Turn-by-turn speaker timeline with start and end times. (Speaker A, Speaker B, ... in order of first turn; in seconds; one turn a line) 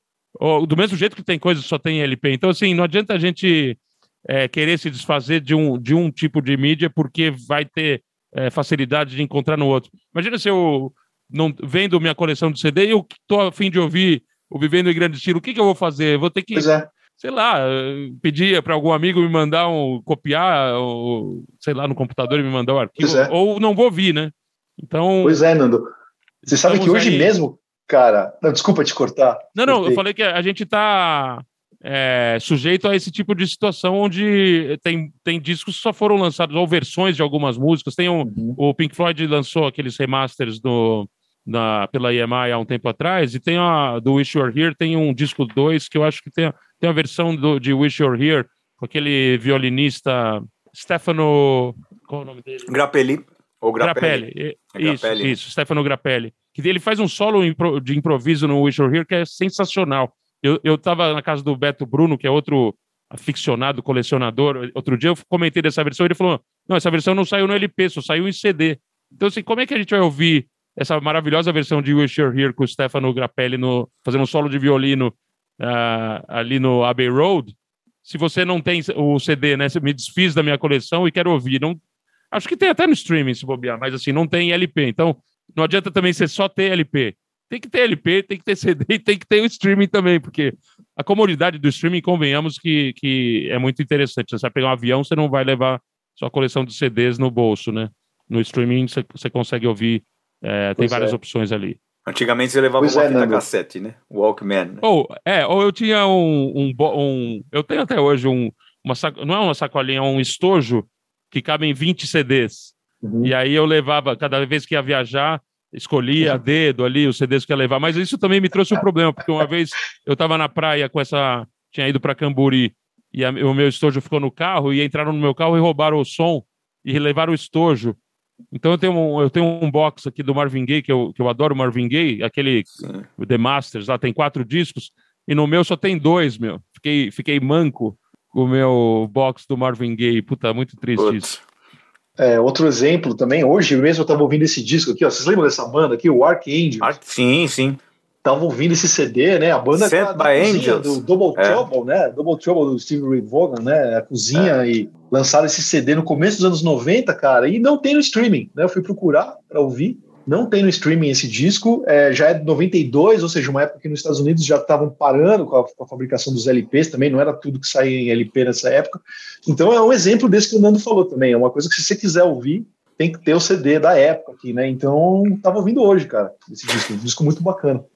Speaker A: 0.4-3.8
Speaker A: 4.3-25.4
Speaker B: 16.5-16.9
Speaker B: 23.0-23.3
Speaker B: 25.2-25.9
Speaker A: 26.4-27.3
Speaker B: 26.4-30.0
Speaker A: 29.6-52.7
Speaker B: 38.2-38.6
Speaker C: 52.7-55.3
Speaker A: 53.8-81.8
Speaker A: 82.3-101.8
Speaker B: 100.8-101.2
Speaker C: 102.0-104.8
Speaker B: 102.8-103.4
Speaker A: 104.8-128.0
Speaker B: 113.0-113.3
Speaker A: 128.5-141.3
Speaker C: 141.0-141.4
Speaker B: 142.2-146.9
Speaker C: 146.8-147.8
Speaker B: 148.2-177.9
Speaker C: 149.7-151.6